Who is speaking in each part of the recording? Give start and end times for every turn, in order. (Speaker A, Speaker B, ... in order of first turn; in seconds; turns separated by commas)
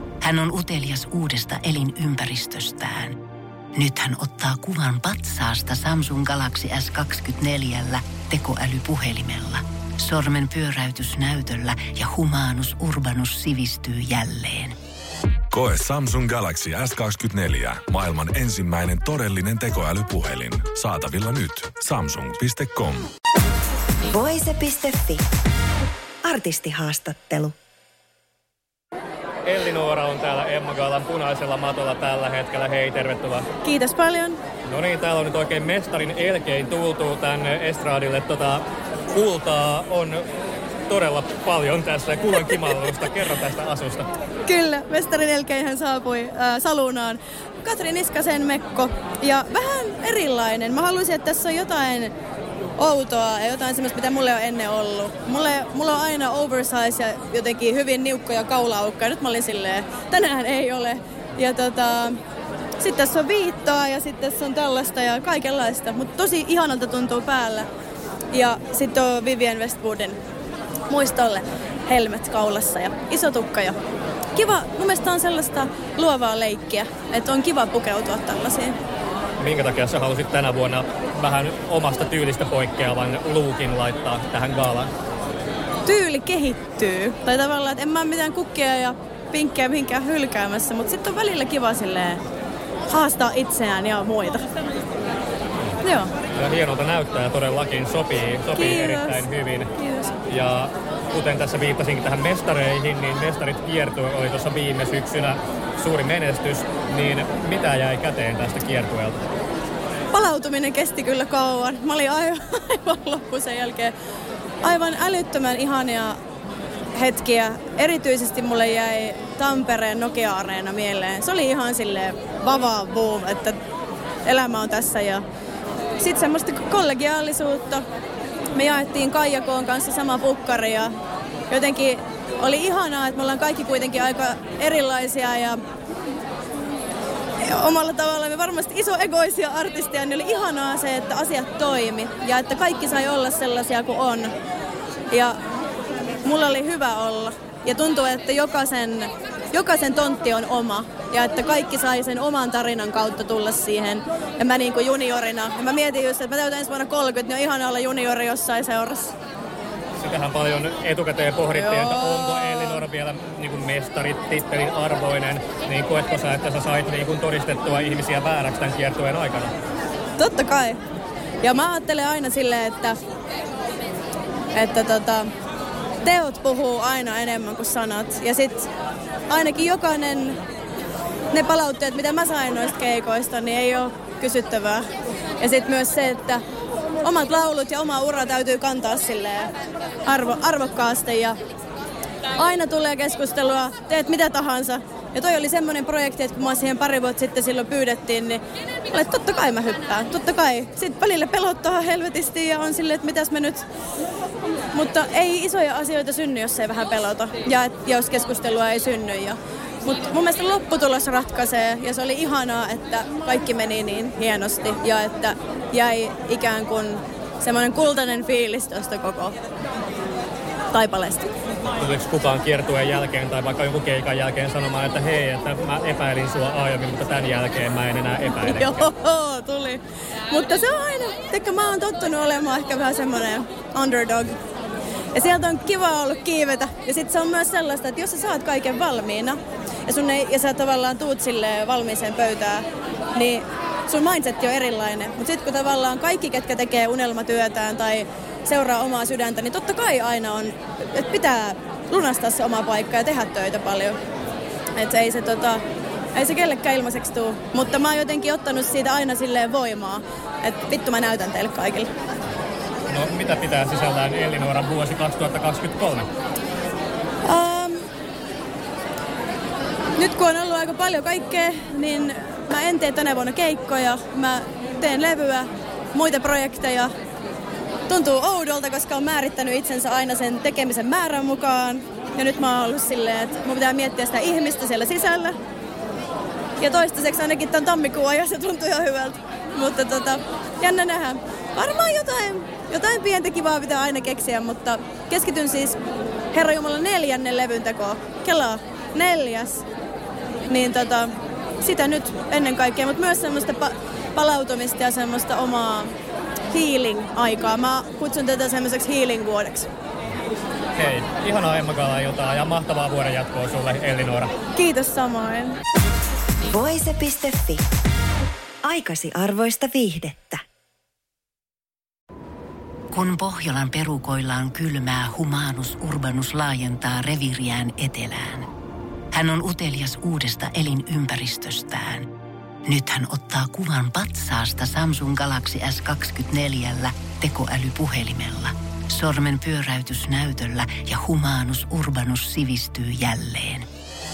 Speaker A: 0.2-3.2, Speaker A: 3.7-14.7, Speaker B: 15.5-23.1, Speaker C: 24.1-25.2, Speaker C: 26.2-27.6, Speaker D: 29.4-33.5, Speaker E: 33.6-34.4, Speaker D: 34.7-40.2, Speaker D: 40.9-44.1, Speaker E: 44.5-52.1, Speaker E: 52.8-62.1, Speaker E: 62.8-67.7, Speaker E: 68.3-70.2, Speaker E: 70.9-73.8, Speaker E: 74.4-78.8, Speaker D: 79.4-84.9, Speaker E: 85.9-92.2, Speaker E: 92.9-94.5, Speaker E: 95.8-96.1, Speaker D: 96.4-99.7, Speaker E: 98.5-99.3, Speaker E: 99.8-100.1, Speaker D: 100.3-109.2, Speaker E: 110.1-113.9, Speaker E: 114.6-116.2, Speaker E: 117.0-123.6, Speaker E: 124.3-125.2, Speaker E: 126.0-127.8, Speaker E: 128.5-130.9, Speaker E: 131.5-135.6, Speaker E: 137.4-144.3, Speaker E: 145.1-145.4, Speaker E: 146.2-159.1, Speaker D: 160.0-169.5, Speaker E: 161.5-162.6, Speaker E: 170.2-170.8, Speaker E: 171.4-173.0, Speaker E: 174.5-175.3, Speaker E: 176.0-178.7, Speaker E: 179.3-180.4, Speaker E: 181.3-184.8, Speaker E: 185.4-186.4, Speaker E: 187.0-189.5, Speaker E: 190.0-191.4, Speaker E: 192.3-203.6, Speaker E: 204.7-219.3, Speaker E: 220.7-221.3, Speaker D: 221.8-228.9, Speaker E: 228.4-234.3, Speaker E: 235.1-254.0, Speaker E: 254.8-255.6, Speaker E: 256.1-261.9, Speaker D: 262.9-266.1, Speaker E: 267.2-267.8, Speaker E: 270.0-276.9, Speaker E: 277.9-285.4, Speaker E: 286.6-295.8, Speaker E: 296.3-299.6, Speaker E: 300.5-305.9, Speaker E: 306.5-309.7, Speaker D: 310.8-314.3, Speaker E: 314.6-315.6, Speaker C: 316.5-317.6, Speaker C: 318.6-320.4, Speaker A: 322.9-328.5, Speaker A: 329.1-332.1, Speaker A: 332.6-343.7